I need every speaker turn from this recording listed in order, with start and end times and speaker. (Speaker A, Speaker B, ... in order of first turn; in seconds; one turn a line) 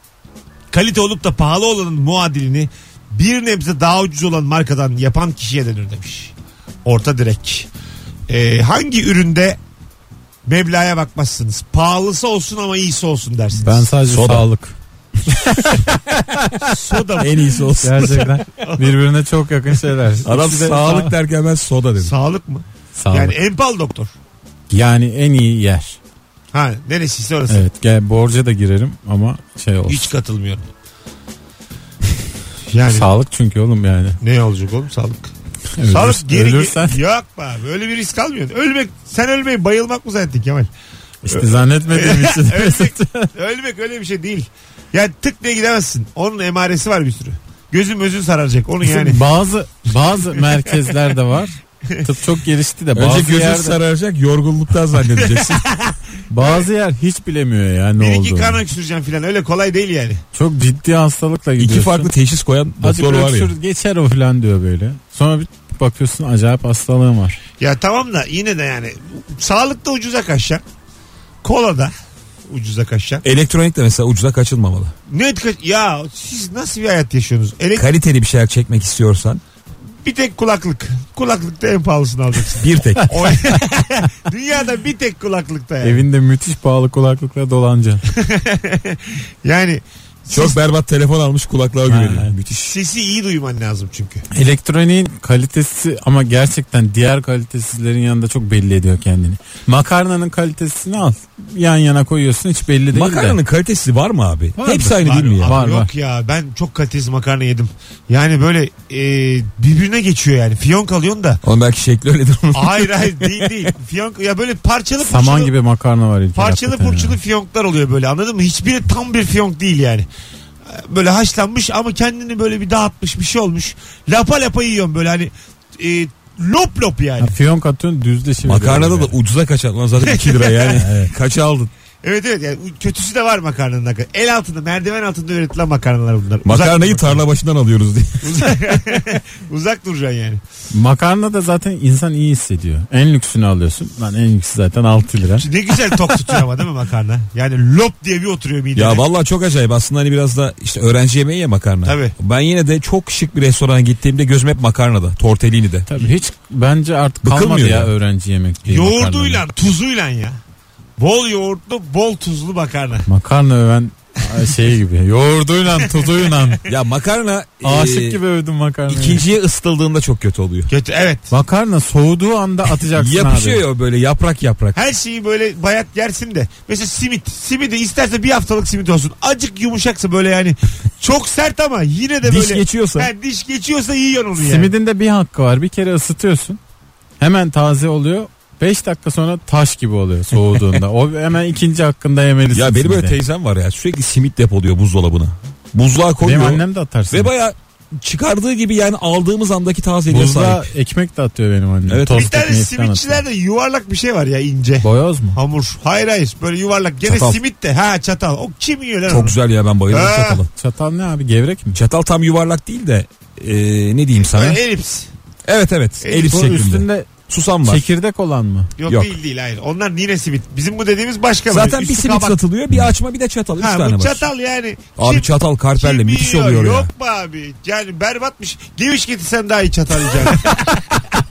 Speaker A: 0.7-6.3
Speaker A: 6.8-7.7
Speaker A: 8.3-9.6
Speaker A: 10.4-13.9
Speaker B: 13.6-14.8
Speaker C: 14.1-14.4
Speaker B: 15.3-16.8
Speaker C: 15.5-15.8
Speaker A: 16.6-17.5
Speaker C: 17.2-18.4
Speaker B: 17.8-21.1
Speaker A: 18.6-19.0
Speaker C: 20.2-22.1
Speaker A: 22.0-24.1
Speaker B: 22.9-23.4
Speaker B: 24.7-26.0
Speaker A: 26.5-27.6
Speaker B: 27.5-30.1
Speaker A: 29.9-30.7
Speaker A: 32.7-33.1
Speaker B: 32.9-34.2
Speaker A: 34.2-35.3
Speaker B: 35.8-37.0
Speaker A: 35.9-40.7
Speaker B: 41.2-43.3
Speaker A: 41.3-49.2
Speaker B: 48.8-53.8
Speaker A: 50.4-50.9
Speaker C: 52.9-55.7
Speaker A: 55.1-56.6
Speaker B: 56.3-58.6
Speaker A: 58.0-60.2
Speaker B: 60.3-62.1
Speaker C: 61.6-63.5
Speaker B: 62.8-67.4
Speaker A: 67.6-70.6
Speaker A: 71.4-71.9
Speaker A: 72.5-73.2
Speaker C: 73.2-74.9
Speaker A: 75.1-77.9
Speaker C: 77.8-79.4
Speaker A: 80.0-86.0
Speaker C: 82.6-83.3
Speaker B: 85.8-88.0
Speaker A: 88.1-90.6
Speaker C: 90.3-92.7
Speaker B: 91.9-92.3
Speaker A: 92.6-94.2
Speaker B: 94.3-103.4
Speaker C: 102.9-105.6
Speaker B: 104.6-105.9
Speaker A: 105.0-111.4
Speaker C: 111.4-113.6
Speaker A: 112.5-115.5
Speaker B: 115.0-117.2
Speaker A: 116.3-120.1
Speaker A: 120.7-127.3
Speaker B: 127.2-129.1
Speaker C: 128.4-131.7
Speaker A: 130.0-130.9
Speaker A: 132.0-137.2
Speaker C: 136.4-138.5
Speaker A: 138.2-140.4
Speaker B: 140.7-145.5
Speaker A: 145.4-149.0
Speaker C: 148.7-155.9
Speaker A: 151.8-152.1
Speaker B: 155.9-159.4
Speaker C: 157.2-157.9
Speaker A: 158.6-160.4
Speaker A: 161.0-163.1
Speaker B: 163.1-166.6
Speaker A: 165.8-166.5
Speaker C: 166.7-168.2
Speaker B: 167.6-169.2
Speaker C: 168.9-170.7
Speaker A: 170.7-171.3
Speaker B: 171.3-173.6
Speaker C: 172.8-174.8
Speaker A: 174.7-184.7
Speaker C: 182.2-183.1
Speaker B: 184.4-186.6
Speaker B: 187.2-193.2
Speaker C: 192.5-200.7
Speaker B: 196.2-197.3
Speaker B: 200.1-203.2
Speaker C: 201.9-202.3
Speaker A: 202.1-209.3
Speaker B: 204.8-205.4
Speaker C: 207.0-207.4
Speaker C: 209.1-210.5
Speaker A: 209.9-210.4
Speaker B: 210.5-211.8
Speaker C: 211.7-214.6
Speaker A: 214.2-215.1
Speaker C: 215.4-217.8
Speaker A: 216.0-216.5
Speaker B: 216.3-217.1
Speaker B: 217.6-218.7
Speaker A: 218.8-222.4
Speaker C: 218.9-219.1
Speaker C: 221.5-224.3
Speaker A: 223.6-230.8
Speaker C: 225.0-226.9